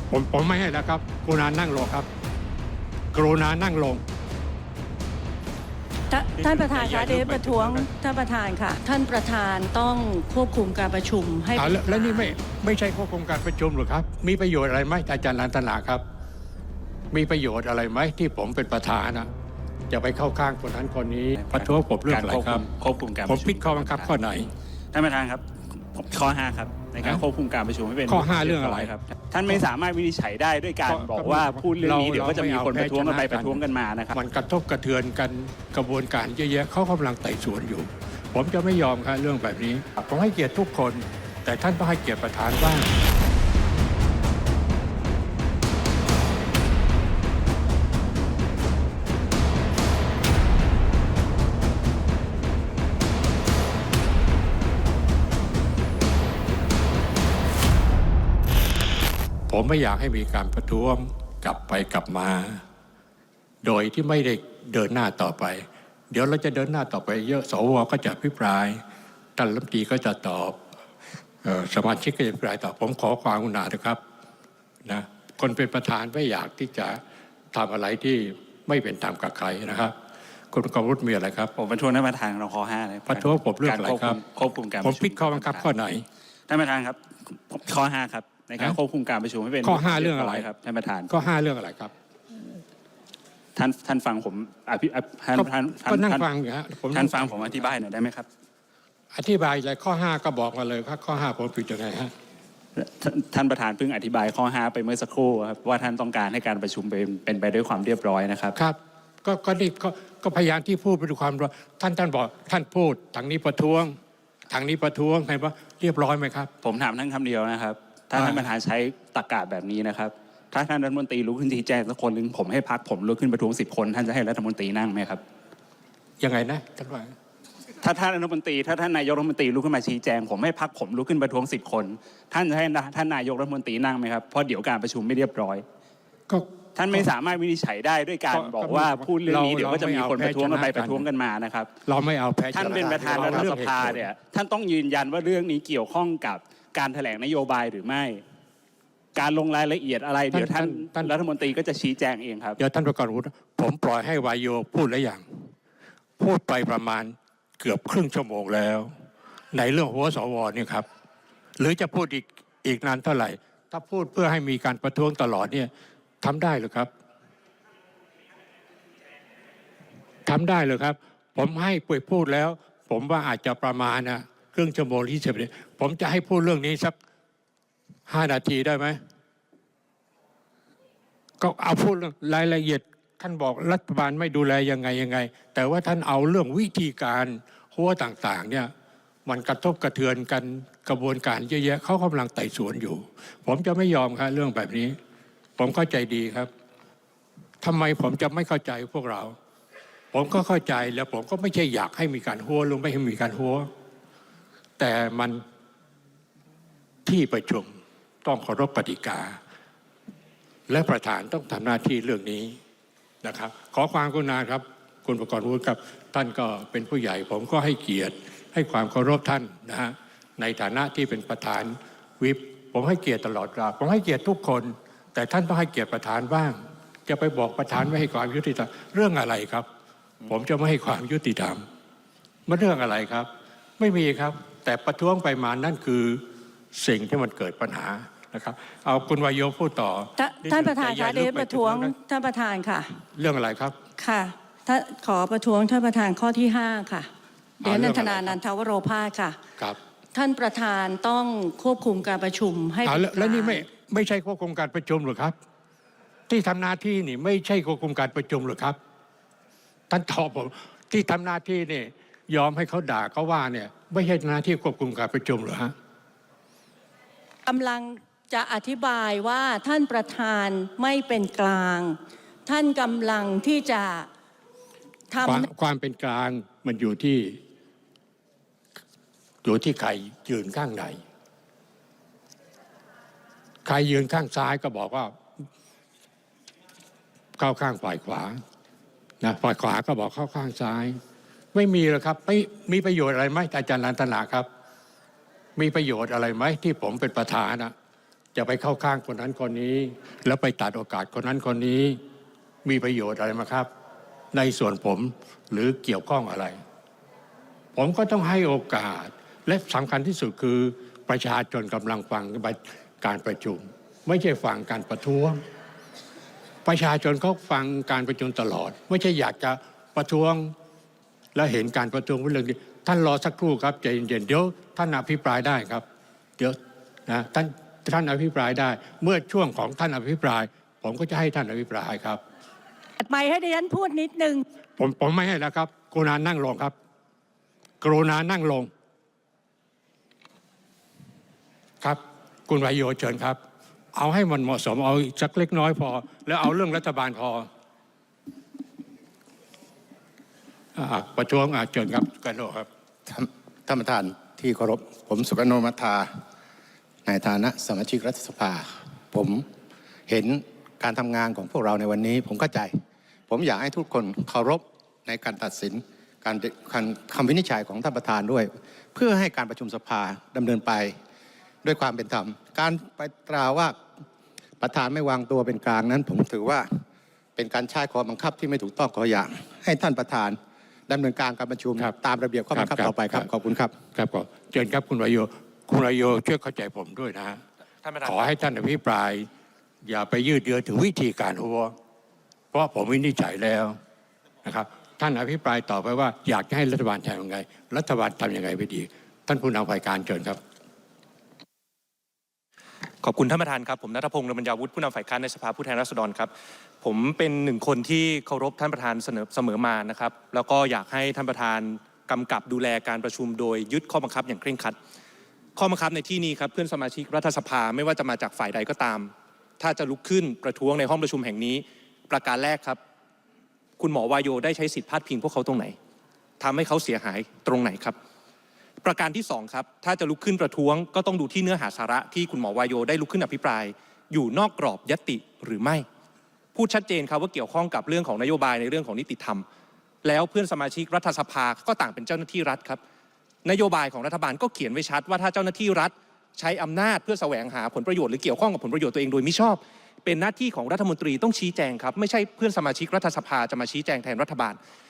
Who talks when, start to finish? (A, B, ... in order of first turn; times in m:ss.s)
0:00.1-0:02.1 A
0:03.1-0:04.0 A
0:06.1-0:12.4 B
0:06.4-0:07.8 A
0:11.6-0:16.0 A
0:17.1-0:19.3 A
0:19.9-0:22.6 A
0:21.5-0:24.1 C
0:23.2-0:24.5 A
0:24.9-0:34.2 C
0:28.1-0:28.9 A
0:30.8-0:42.9 A
0:59.5-1:02.6 A
1:03.6-1:08.8 A
1:09.4-1:10.6 A
1:11.4-1:14.0 A
1:14.8-1:17.0 A
1:17.5-1:19.9 A
1:20.5-1:21.5 A
1:21.6-1:25.7 C
1:23.1-1:24.2 A
1:24.8-1:26.0 A
1:26.5-1:31.1 C
1:29.6-1:30.5 A
1:31.1-1:31.9 A
1:33.6-1:36.2 C
1:35.3-1:37.7 A
1:36.9-1:38.3 C
1:39.1-1:42.1 A
1:42.8-1:48.5 C
1:48.5-1:54.0 A
1:54.5-1:56.5 A
1:56.6-2:05.2 C
1:58.1-1:58.5 A
2:06.2-2:07.1 A
2:07.8-2:15.6 C
2:16.3-2:17.1 A
2:16.8-2:21.7 C
2:18.3-2:21.1 A
2:21.8-2:24.1 A
2:22.6-2:28.2 C
2:22.6-2:23.5 D
2:29.1-2:32.6 C
2:30.3-2:31.1 A
2:32.6-2:35.5 A
2:36.2-2:38.9 A
2:39.5-2:40.8 A
2:41.6-2:45.7 A
2:46.2-2:46.9 A
2:50.2-2:56.9 A
2:58.1-2:59.0 A
3:01.4-3:08.7 A
3:09.2-3:15.0 A
3:15.6-3:16.5 A
3:17.6-3:19.3 A
3:20.1-3:23.7 A
3:24.8-3:25.4 A
3:27.0-3:27.7 A
3:28.2-3:29.4 A
3:30.7-3:32.6 A
3:33.2-3:49.7 A
3:50.2-3:51.6 A
3:52.5-3:56.2 A
3:56.7-4:01.9 A
4:00.2-4:03.0 B
4:03.1-4:03.7 A
4:04.0-4:07.1 B
4:07.6-4:09.4 B
4:07.6-4:08.4 A
4:10.1-4:13.7 B
4:12.8-4:15.4 A
4:16.3-4:18.8 A
4:19.9-4:25.7 A
4:27.4-4:34.1 B
4:35.1-4:35.5 B
4:35.2-4:37.4 A
4:39.4-4:41.0 A
4:43.6-4:45.1 A
4:47.4-4:48.4 A
4:49.2-4:51.0 A
4:51.5-4:54.5 A
4:55.6-4:57.7 A
4:58.3-5:02.0 A
5:02.6-5:03.7 A
5:04.3-5:06.6 A
5:07.7-5:15.4 A
5:16.6-5:20.5 A
5:21.3-5:25.8 A
5:26.4-5:32.2 A
5:33.0-5:34.4 B
5:34.8-5:36.7 A
5:37.8-5:38.7 A
5:41.8-5:43.4 A
5:43.9-5:47.5 A
5:50.7-5:52.7 A
5:53.1-5:56.1 D
5:57.0-5:59.4 D
6:00.1-6:02.8 D
6:03.3-6:11.0 D
6:11.6-6:13.8 D
6:14.6-6:16.7 D
6:17.4-6:23.7 D
6:22.5-6:23.3 A
6:23.9-6:27.4 A
6:27.8-6:28.3 E
6:28.0-6:29.3 A
6:29.8-6:31.7 A
6:32.5-6:33.8 A
6:34.4-6:40.4 A
6:43.0-6:54.8 E
6:55.6-7:02.8 E
7:03.8-7:05.8 E
7:06.4-7:08.0 E
7:08.8-7:15.8 E
7:16.5-7:19.4 E
7:20.0-7:22.8 E
7:23.4-7:34.6 E